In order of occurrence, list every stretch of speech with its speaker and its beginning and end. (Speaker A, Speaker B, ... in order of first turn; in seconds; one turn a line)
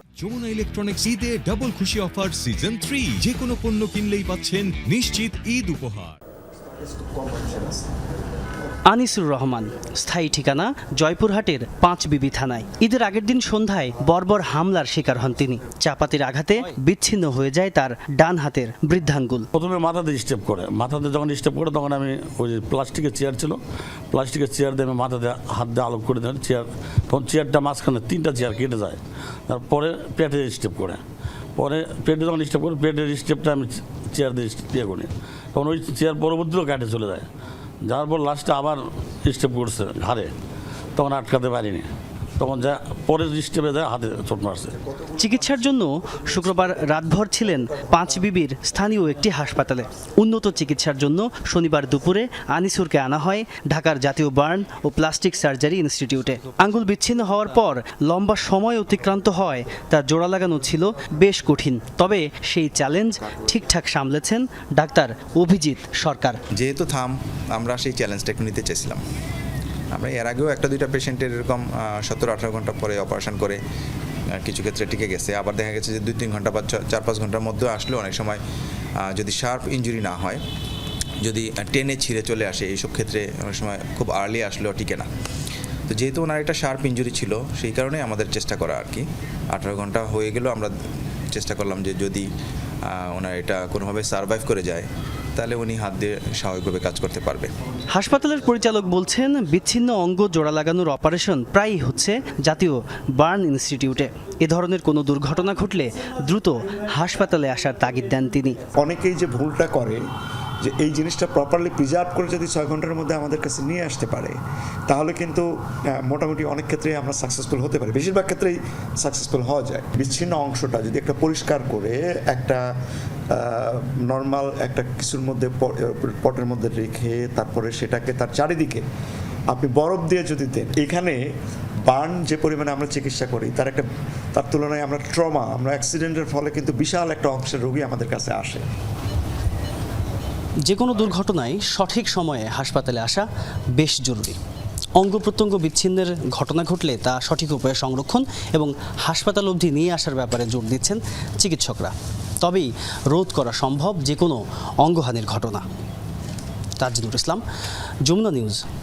Speaker A: 0.2-6.2
Speaker B: 8.9-19.5
Speaker C: 19.5-23.6
Speaker C: 24.1-31.0
Speaker C: 31.6-37.3
Speaker C: 37.8-40.3
Speaker C: 41.0-44.7
Speaker B: 45.2-66.4
Speaker D: 66.6-69.0
Speaker D: 69.9-73.6
Speaker D: 74.4-78.4
Speaker D: 79.1-80.4
Speaker D: 81.2-85.1
Speaker D: 85.9-90.7
Speaker D: 91.3-92.2
Speaker D: 92.9-94.9
Speaker D: 95.4-97.5
Speaker B: 97.9-108.6
Speaker E: 108.8-110.0
Speaker E: 110.6-114.3
Speaker E: 114.9-115.5
Speaker E: 116.0-122.7
Speaker E: 123.3-128.8
Speaker E: 129.5-131.2
Speaker E: 131.8-138.6
Speaker B: 140.7-144.4
Speaker B: 145.0-155.7
Speaker B: 156.8-157.4
Speaker B: 158.0-158.7